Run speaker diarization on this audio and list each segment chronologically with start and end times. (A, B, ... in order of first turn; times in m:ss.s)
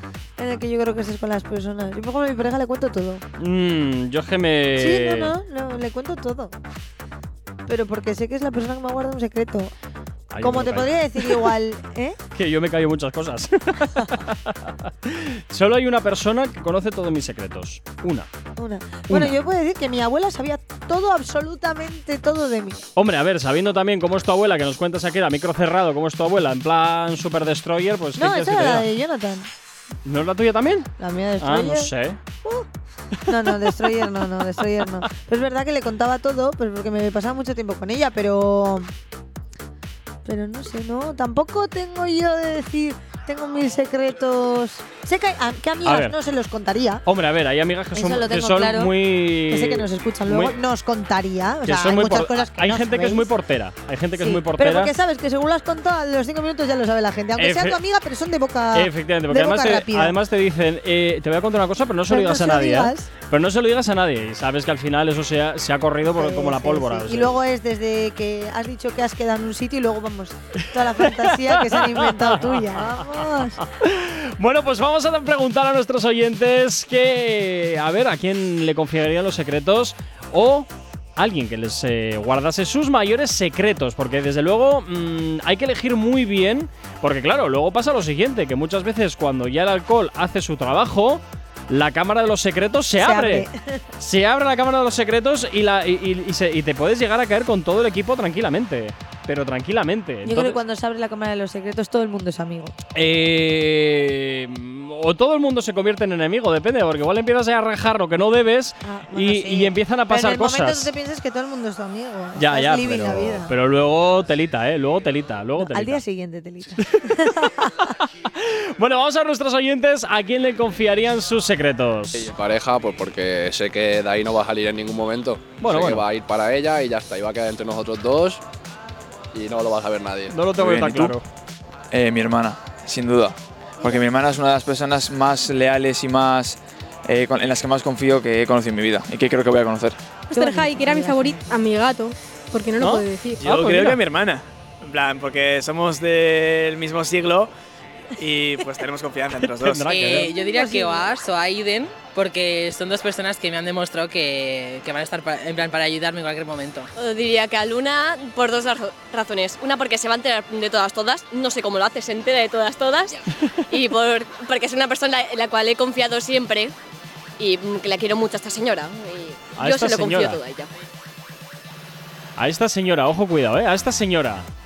0:00.4-0:03.2 A
0:03.4-0:05.3 B
0:04.8-0:06.5 A
0:07.7-0:09.7 A
0:10.3-0:11.5 B
0:10.4-0:12.2 A
0:12.3-0:18.3 B
0:18.6-0:22.9 A
0:19.1-0:19.4 B
0:23.0-0:28.9 B
0:28.2-0:29.5 A
0:30.0-0:32.2 B
0:31.0-0:31.9 A
0:33.2-0:38.9 A
0:40.2-0:47.0 A
0:45.8-0:46.2 B
0:47.0-0:50.6 B
0:47.9-0:53.3 A
0:51.6-0:54.9 B
0:54.2-1:00.2 A
0:57.4-0:57.8 B
0:58.7-1:07.4 B
1:02.1-1:03.1 A
1:06.0-1:13.6 A
1:10.6-1:33.5 B
1:33.0-1:33.8 A
1:34.0-1:40.6 B
1:40.2-1:42.7 A
1:42.9-1:50.9 B
1:48.8-1:53.5 A
1:52.4-1:56.0 B
1:55.6-1:57.9 A
1:57.9-2:02.2 B
2:02.1-2:08.4 C
2:05.6-2:06.0 B
2:09.3-2:10.4 C
2:10.3-2:11.2 B
2:10.5-2:11.2 D
2:11.9-2:20.0 D
2:20.3-2:23.4 E
2:20.3-2:21.4 A
2:22.8-2:24.0 B
2:23.4-2:27.5 F
2:28.2-2:29.8 F
2:29.6-2:30.3 B
2:29.8-2:36.9 G
2:30.2-2:31.1 A
2:37.0-2:46.7 H
2:47.4-2:50.7 H
2:49.6-2:50.4 B
2:52.4-2:54.5 B